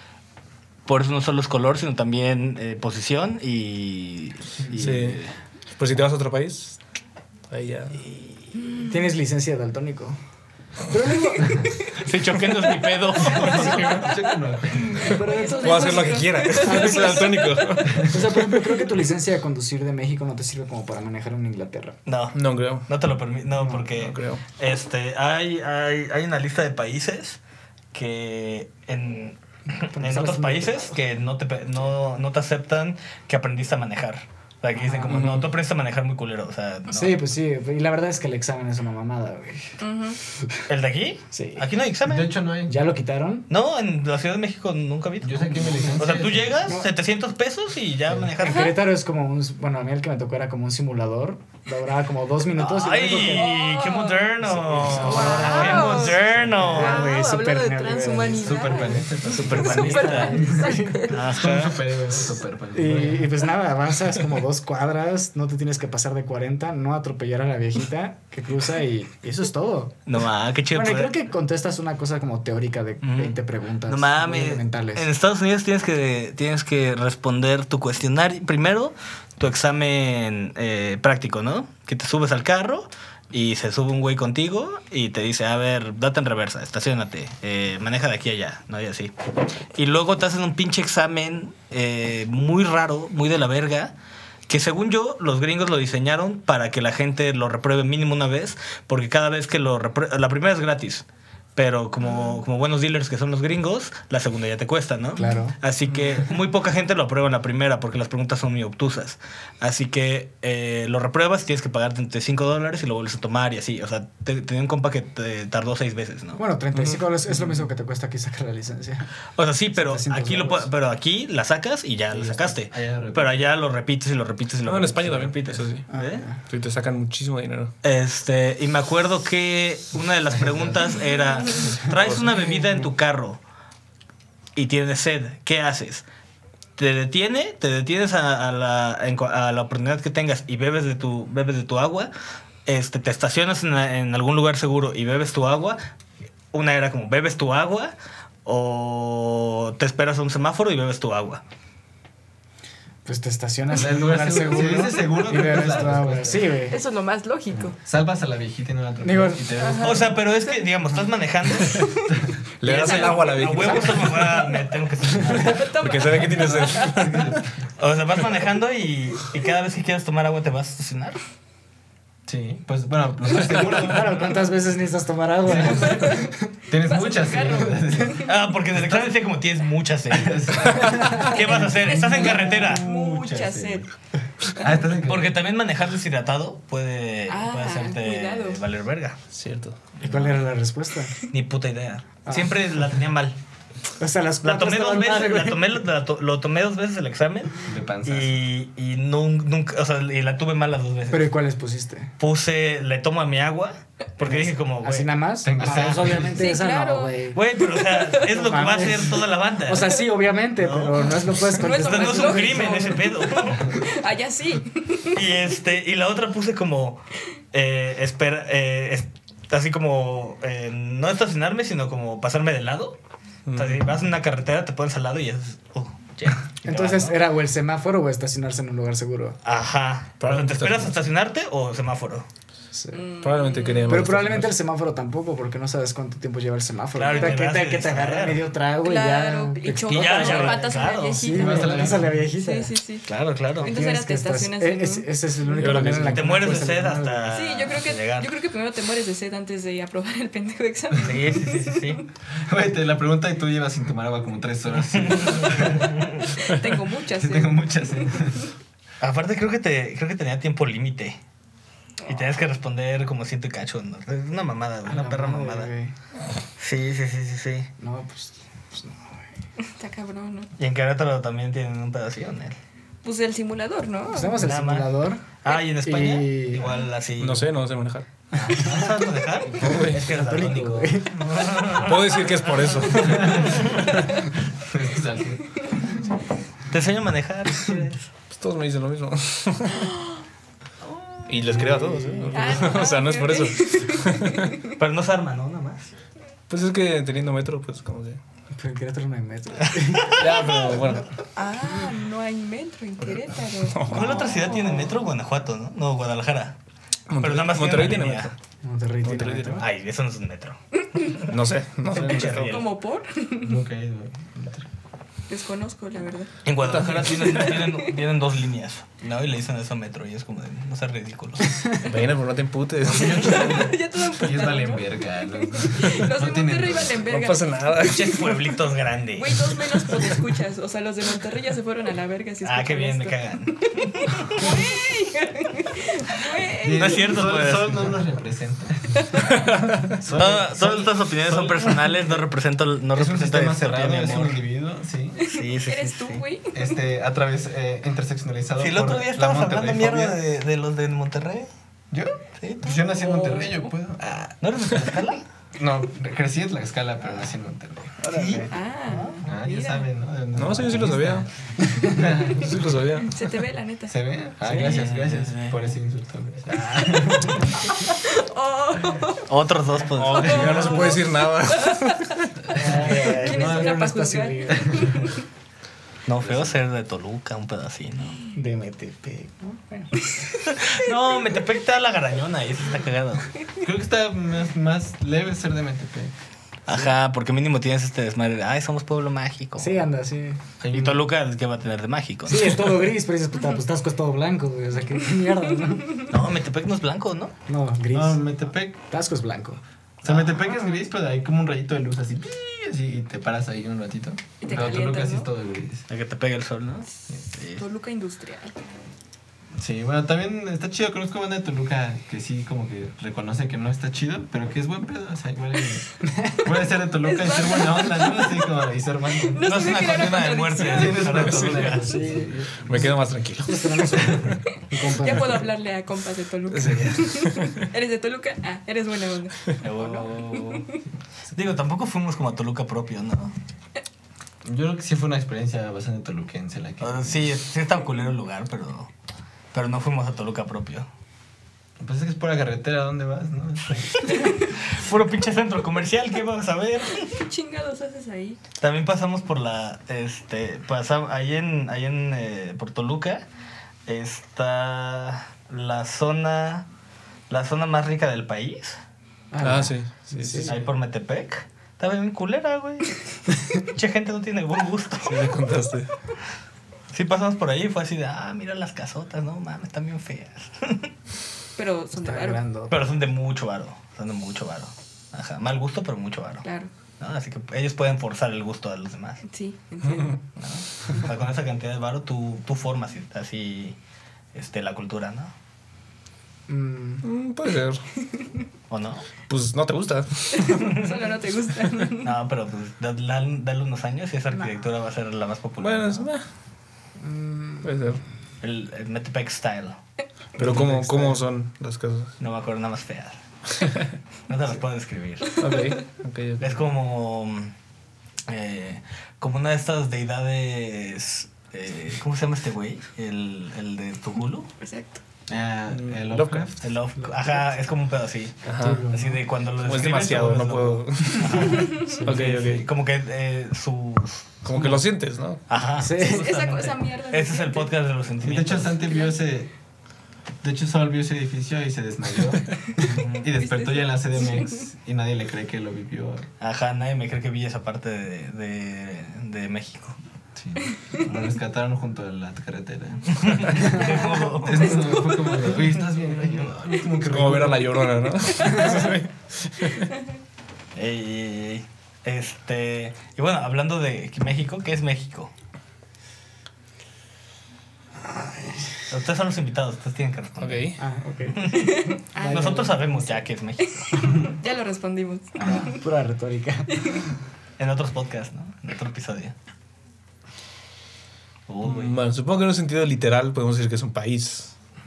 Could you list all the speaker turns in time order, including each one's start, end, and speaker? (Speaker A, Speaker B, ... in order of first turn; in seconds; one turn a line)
Speaker A: 0.8-5.3
Speaker B: 4.8-5.2
Speaker B: 5.8-6.8
Speaker B: 7.5-8.0
Speaker A: 8.0-8.3
Speaker C: 8.6-8.9
Speaker D: 8.8-10.2
Speaker D: 10.9-11.8
Speaker A: 12.0-14.0
Speaker E: 13.3-15.2
Speaker C: 13.4-14.3
Speaker D: 13.4-13.7
Speaker C: 14.9-18.1
Speaker D: 15.0-22.0
Speaker B: 15.6-18.5
Speaker A: 22.1-27.4
Speaker B: 22.3-22.9
Speaker D: 23.6-23.8
Speaker B: 23.9-24.4
Speaker A: 27.9-37.1
Speaker D: 29.9-31.0
Speaker D: 34.7-35.4
Speaker D: 36.9-39.8
Speaker C: 39.8-40.2
Speaker A: 40.7-42.3
Speaker D: 41.3-41.6
Speaker E: 42.0-42.8
Speaker D: 42.7-43.5
Speaker A: 43.5-48.7
Speaker E: 45.2-46.6
Speaker D: 46.6-46.9
Speaker D: 48.1-53.6
Speaker C: 48.4-48.7
Speaker A: 52.6-57.1
Speaker C: 53.1-54.2
Speaker D: 54.4-61.1
Speaker E: 54.9-55.7
Speaker C: 55.0-56.2
Speaker C: 56.7-61.3
Speaker E: 58.4-63.3
Speaker A: 59.5-60.4
Speaker A: 61.1-61.9
Speaker D: 62.7-70.0
Speaker A: 70.1-71.1
Speaker D: 70.7-75.1
Speaker A: 73.0-89.1
Speaker A: 89.7-93.9
Speaker A: 94.5-101.0
Speaker A: 101.5-116.4
Speaker D: 105.2-105.6
Speaker D: 116.3-119.1
Speaker B: 116.7-117.0
Speaker A: 119.4-126.2
Speaker D: 119.7-120.7
Speaker E: 122.1-123.4
Speaker B: 124.6-125.9
Speaker D: 125.9-126.4
Speaker B: 126.4-127.7
Speaker A: 127.8-133.4
Speaker E: 130.3-130.9
Speaker A: 134.6-136.0
Speaker A: 136.8-142.1
Speaker A: 142.7-145.8
Speaker A: 146.5-147.9
Speaker A: 148.4-151.4
Speaker D: 153.0-156.8
Speaker E: 153.7-156.5
Speaker C: 156.7-157.7
Speaker E: 157.5-160.2
Speaker D: 159.0-159.5
Speaker C: 159.6-160.6
Speaker A: 159.8-161.8
Speaker C: 161.6-162.1
Speaker B: 162.6-164.4
Speaker A: 162.6-165.7
Speaker C: 162.7-164.6
Speaker C: 165.2-167.1
Speaker B: 165.7-167.5
Speaker E: 166.4-167.6
Speaker A: 167.8-171.2
Speaker E: 172.3-174.3
Speaker D: 173.4-176.5
Speaker E: 175.4-179.0
Speaker C: 175.6-178.3
Speaker A: 178.2-182.9
Speaker E: 180.1-183.9
Speaker C: 181.8-183.9
Speaker C: 184.5-184.9
Speaker E: 184.6-185.4
Speaker A: 185.0-189.2
Speaker C: 187.3-188.6
Speaker B: 189.3-189.8
Speaker A: 190.0-190.4
Speaker D: 190.0-191.1
Speaker A: 191.3-193.4
Speaker D: 192.2-192.5
Speaker D: 194.0-195.7
Speaker A: 194.4-201.3
Speaker E: 197.6-198.4
Speaker D: 201.1-202.1
Speaker A: 202.2-205.9
Speaker D: 204.2-207.4
Speaker E: 205.4-206.4
Speaker C: 206.2-208.4
Speaker A: 207.3-210.0
Speaker D: 208.3-213.1
Speaker A: 210.6-213.8
Speaker C: 211.4-215.2
Speaker A: 215.1-217.0
Speaker A: 217.5-223.0
Speaker B: 223.5-223.9
Speaker A: 223.5-227.2
Speaker D: 226.6-229.4
Speaker A: 229.4-232.2
Speaker B: 230.2-231.0
Speaker D: 232.7-233.0
Speaker C: 232.9-234.0
Speaker B: 233.2-234.5
Speaker D: 233.8-242.7
Speaker A: 236.9-238.5
Speaker C: 237.1-237.4
Speaker C: 238.8-243.0
Speaker A: 239.9-241.2
Speaker E: 241.3-242.2
Speaker A: 243.1-243.7
Speaker C: 243.6-245.8
Speaker D: 243.6-247.4
Speaker B: 245.6-246.6
Speaker A: 246.0-248.3
Speaker C: 247.3-252.0
Speaker A: 251.0-252.0
Speaker E: 252.3-256.0
Speaker A: 255.0-256.3
Speaker C: 256.4-258.2
Speaker E: 257.1-258.5
Speaker A: 259.0-261.2
Speaker A: 262.1-265.7
Speaker D: 264.8-265.9
Speaker A: 266.6-267.7
Speaker D: 267.8-269.2
Speaker C: 269.6-270.5
Speaker A: 270.6-272.6
Speaker C: 273.0-274.5
Speaker D: 274.1-275.2
Speaker A: 274.4-277.5
Speaker D: 275.8-276.6
Speaker B: 277.2-278.1
Speaker A: 278.3-283.9
Speaker D: 278.6-278.9
Speaker B: 279.6-280.0
Speaker D: 280.0-281.7
Speaker B: 281.8-283.5
Speaker E: 283.0-283.8
Speaker E: 284.5-286.0
Speaker A: 286.7-288.1
Speaker B: 288.3-289.9
Speaker A: 290.9-291.5
Speaker B: 291.3-294.6
Speaker D: 291.5-292.7
Speaker C: 292.3-294.6
Speaker A: 294.7-295.9
Speaker B: 296.5-298.2
Speaker D: 298.5-300.4
Speaker A: 299.7-300.4
Speaker B: 300.1-301.1
Speaker C: 301.4-305.0
Speaker B: 303.6-304.5
Speaker A: 303.9-306.6
Speaker B: 307.1-308.3
Speaker A: 307.2-308.3
Speaker D: 308.6-309.6
Speaker B: 309.0-309.6
Speaker A: 309.6-310.6
Speaker B: 311.3-312.6
Speaker A: 311.9-312.7
Speaker C: 312.5-313.6
Speaker E: 313.4-314.7
Speaker C: 315.3-317.9
Speaker A: 316.4-321.5
Speaker B: 316.6-317.6
Speaker D: 321.4-321.7
Speaker B: 321.8-323.6
Speaker E: 322.8-327.0
Speaker C: 322.9-328.3
Speaker B: 327.1-328.4
Speaker A: 327.8-329.5
Speaker C: 329.2-337.4
Speaker A: 332.4-334.5
Speaker E: 336.6-339.1
Speaker A: 336.7-338.0
Speaker C: 339.1-339.3
Speaker B: 339.4-339.9
Speaker E: 340.0-342.2
Speaker A: 340.1-344.4
Speaker E: 342.9-345.2
Speaker C: 345.2-346.8
Speaker A: 345.2-346.2
Speaker E: 346.5-350.2
Speaker A: 348.6-351.5
Speaker E: 351.9-354.4
Speaker A: 352.4-352.8
Speaker C: 352.9-353.7
Speaker A: 354.4-355.3
Speaker E: 355.5-358.5
Speaker A: 358.1-359.2
Speaker B: 358.1-358.4
Speaker C: 358.5-359.9
Speaker E: 359.2-362.6
Speaker B: 360.3-361.3
Speaker B: 362.3-363.3
Speaker C: 363.0-363.9
Speaker E: 363.9-367.6
Speaker D: 364.4-364.7
Speaker A: 364.5-365.7
Speaker A: 366.5-367.3
Speaker C: 367.6-369.2
Speaker A: 369.3-370.9
Speaker B: 369.9-372.3
Speaker C: 370.1-375.2
Speaker E: 372.5-373.7
Speaker D: 372.5-375.0
Speaker A: 372.6-373.2
Speaker E: 374.6-375.0
Speaker A: 376.1-378.2
Speaker E: 376.2-376.5
Speaker D: 378.3-380.1
Speaker A: 380.5-383.3
Speaker E: 383.6-386.1
Speaker A: 386.7-389.8
Speaker D: 389.6-390.4
Speaker E: 390.6-391.0
Speaker A: 390.7-392.7
Speaker D: 392.3-396.1
Speaker A: 396.1-397.3
Speaker D: 397.5-398.2
Speaker E: 397.9-398.8
Speaker D: 398.8-399.6
Speaker A: 400.0-400.4
Speaker E: 400.0-405.9
Speaker C: 400.5-400.8
Speaker C: 404.4-405.3
Speaker A: 405.9-407.6
Speaker C: 407.5-408.5
Speaker E: 409.6-419.4
Speaker D: 416.0-416.5
Speaker C: 417.0-418.6
Speaker C: 419.2-421.2
Speaker A: 419.4-421.9
Speaker E: 420.5-422.8
Speaker B: 421.2-421.7
Speaker D: 421.8-425.5
Speaker B: 422.6-423.9
Speaker E: 423.9-424.3
Speaker C: 424.8-430.8
Speaker B: 426.5-427.6
Speaker A: 429.6-430.7
Speaker A: 431.3-433.3
Speaker E: 434.4-437.3
Speaker A: 436.8-438.9
Speaker A: 439.5-440.9
Speaker E: 441.8-444.3
Speaker A: 444.1-447.1
Speaker C: 447.0-448.4
Speaker A: 448.6-453.2
Speaker A: 453.9-456.7
Speaker A: 457.3-458.8
Speaker D: 459.3-460.6
Speaker B: 459.4-460.6
Speaker A: 460.4-465.3
Speaker B: 465.0-465.9
Speaker A: 466.9-470.9
Speaker C: 471.6-472.4
Speaker D: 471.9-472.8
Speaker A: 472.7-476.4
Speaker C: 476.4-476.7
Speaker A: 477.0-479.2
Speaker C: 479.3-480.2
Speaker A: 480.4-483.8
Speaker A: 484.3-485.3
Speaker D: 486.5-487.0
Speaker B: 487.0-487.8
Speaker A: 488.7-489.1
Speaker B: 489.3-490.8
Speaker C: 490.3-492.1
Speaker A: 492.0-496.1
Speaker B: 495.6-496.2
Speaker D: 497.0-497.7
Speaker B: 497.6-498.0
Speaker A: 498.4-499.8
Speaker D: 500.4-501.2
Speaker B: 500.4-502.1
Speaker A: 502.2-503.2
Speaker B: 503.6-503.9
Speaker A: 504.3-505.3
Speaker B: 505.4-506.6
Speaker C: 505.4-505.8
Speaker A: 506.4-507.5
Speaker A: 508.3-514.5
Speaker C: 514.6-515.0
Speaker E: 515.3-516.7
Speaker B: 515.7-516.5
Speaker A: 516.6-524.4
Speaker D: 517.0-517.4
Speaker B: 518.5-518.9
Speaker D: 518.6-519.2
Speaker B: 519.6-522.6
Speaker E: 521.4-522.6
Speaker B: 524.4-525.4
Speaker A: 525.5-528.8
Speaker D: 525.8-526.3
Speaker C: 526.0-527.7
Speaker E: 528.2-529.5
Speaker C: 528.8-529.2
Speaker E: 530.4-536.3
Speaker A: 532.8-533.3
Speaker C: 533.3-534.7
Speaker A: 536.4-540.0
Speaker E: 540.4-548.0
Speaker A: 543.1-544.8
Speaker C: 543.7-545.7
Speaker B: 547.0-549.9
Speaker C: 548.4-548.8
Speaker A: 550.7-555.3
Speaker D: 558.0-558.8
Speaker A: 558.9-560.7
Speaker B: 560.4-560.8
Speaker D: 560.8-563.3
Speaker A: 561.3-563.9
Speaker C: 561.5-562.7
Speaker C: 563.8-565.8
Speaker E: 565.4-565.8
Speaker D: 565.7-567.0
Speaker C: 566.8-567.0
Speaker A: 567.6-569.3
Speaker A: 571.5-572.0
Speaker B: 571.6-574.5